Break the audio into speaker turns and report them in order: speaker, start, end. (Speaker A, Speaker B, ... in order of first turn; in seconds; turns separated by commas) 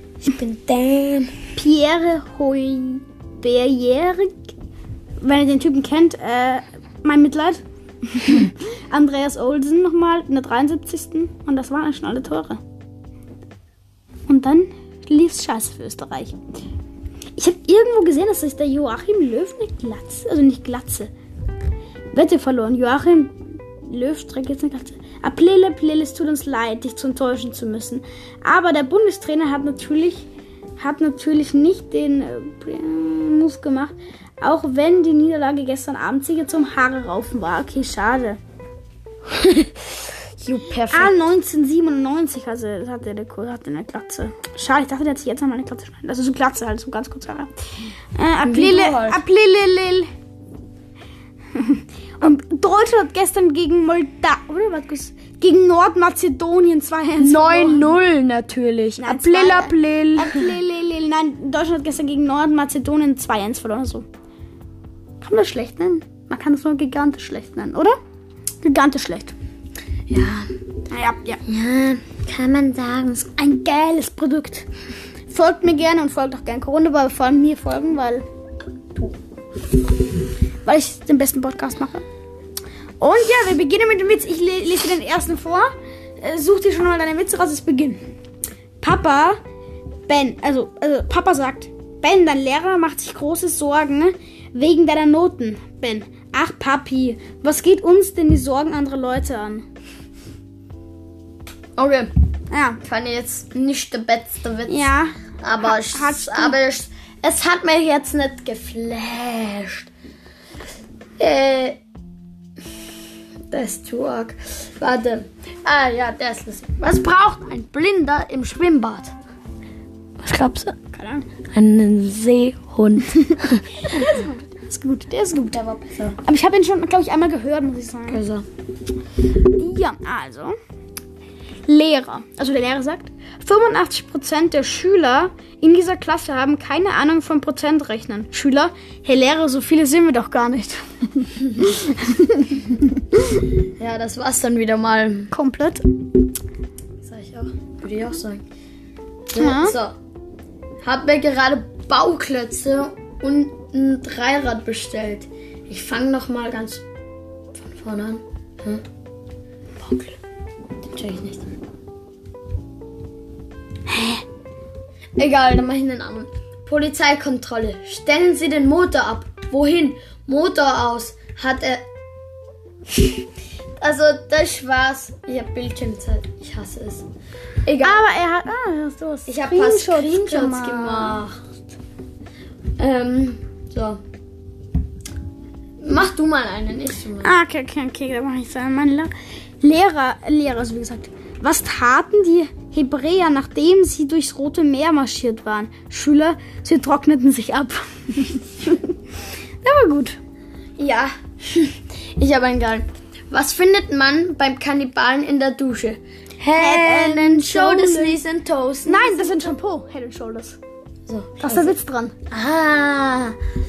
Speaker A: 0.2-1.4, Speaker B: 1.6-4.4, Speaker B: 5.2-12.6, Speaker B: 14.3-16.4, Speaker B: 17.4-21.1, Speaker B: 22.1-30.3, Speaker B: 30.8-38.4, Speaker A: 39.3-39.7, Speaker A: 40.4-41.2, Speaker B: 40.9-47.5, Speaker B: 48.1-50.1, Speaker A: 48.4-49.2, Speaker B: 51.5-58.0, Speaker A: 57.2-60.5, Speaker B: 59.0-64.1, Speaker B: 65.2-68.0, Speaker B: 68.6-69.3, Speaker A: 70.1-70.5, Speaker B: 70.9-71.4, Speaker A: 71.5-73.3, Speaker B: 73.4-74.7, Speaker B: 75.3-78.2, Speaker B: 80.7-82.0, Speaker B: 83.0-88.0, Speaker B: 88.8-89.4, Speaker B: 90.1-99.7, Speaker A: 101.8-102.1, Speaker B: 102.5-102.8, Speaker A: 102.8-109.9, Speaker B: 104.7-106.6, Speaker A: 111.2-111.8, Speaker A: 113.5-119.2, Speaker A: 120.2-120.8, Speaker B: 120.9-121.3, Speaker A: 121.5-124.0, Speaker B: 123.8-125.6, Speaker A: 125.5-126.2, Speaker B: 126.2-128.2, Speaker A: 128.1-128.5, Speaker B: 129.5-130.6, Speaker B: 131.7-143.4, Speaker A: 143.8-145.3, Speaker B: 145.3-145.8, Speaker A: 147.0-148.4, Speaker A: 149.3-150.0, Speaker B: 149.4-149.8, Speaker A: 150.8-156.8, Speaker A: 157.5-158.8, Speaker A: 159.8-160.2, Speaker A: 160.9-161.5, Speaker B: 163.9-164.2, Speaker A: 165.2-171.8, Speaker A: 173.8-177.1, Speaker A: 177.7-178.1, Speaker B: 177.8-181.2, Speaker A: 179.3-181.4, Speaker A: 182.8-184.0, Speaker A: 185.8-187.3, Speaker B: 187.2-198.9, Speaker B: 199.6-200.2, Speaker A: 200.8-209.6, Speaker B: 206.6-208.2, Speaker B: 208.9-210.6, Speaker A: 211.1-211.8, Speaker B: 211.4-212.2, Speaker A: 212.3-213.4